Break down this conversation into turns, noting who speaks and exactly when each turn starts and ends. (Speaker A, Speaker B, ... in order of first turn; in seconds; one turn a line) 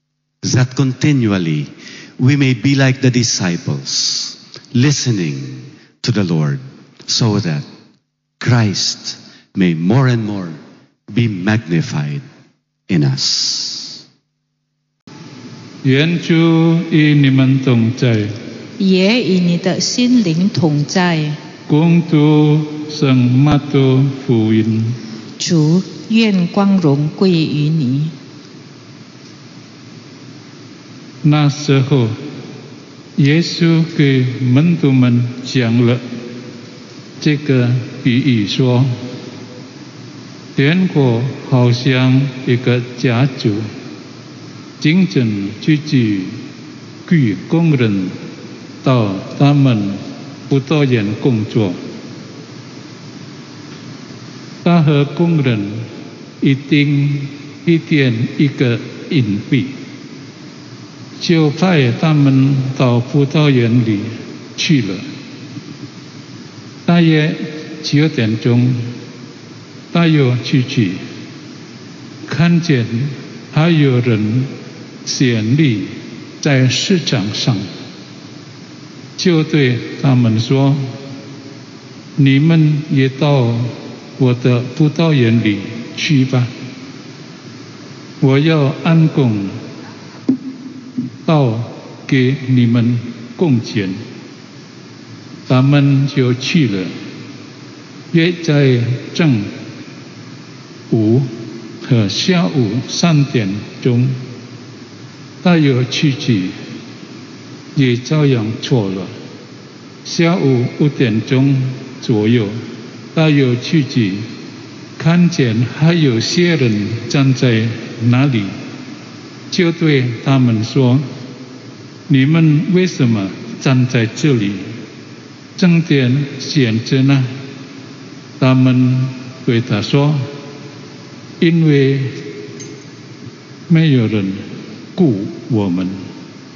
Speaker A: 0.4-7.7
Speaker A: 8.4-10.6
Speaker A: 11.1-12.2
Speaker A: 12.9-14.0
Speaker B: 15.8-18.3
Speaker C: 18.8-21.4
Speaker B: 21.7-25.0
Speaker C: 25.4-28.1
Speaker B: 31.2-32.2
Speaker B: 33.2-36.0
Speaker B: 37.2-38.9
Speaker B: 40.6-43.6
Speaker B: 44.8-46.4
Speaker B: 47.1-48.1
Speaker B: 48.8-51.8
Speaker B: 54.6-55.9
Speaker B: 56.4-59.8
Speaker B: 61.2-65.0
Speaker B: 66.9-68.9
Speaker B: 69.9-71.0
Speaker B: 72.3-74.5
Speaker B: 75.0-77.7
Speaker B: 79.2-80.9
Speaker B: 82.2-86.5
Speaker B: 88.2-89.6
Speaker B: 91.3-94.0
Speaker B: 95.5-96.9
Speaker B: 98.1-99.5
Speaker B: 100.9-101.3
Speaker B: 101.8-104.2
Speaker B: 105.4-106.5
Speaker B: 107.8-109.1
Speaker B: 110.0-112.5
Speaker B: 113.1-114.2
Speaker B: 115.0-118.5
Speaker B: 119.5-121.1
Speaker B: 122.1-124.6
Speaker B: 125.6-127.3
Speaker B: 128.4-130.2
Speaker B: 131.4-132.2
Speaker B: 133.7-134.4
Speaker B: 134.9-136.0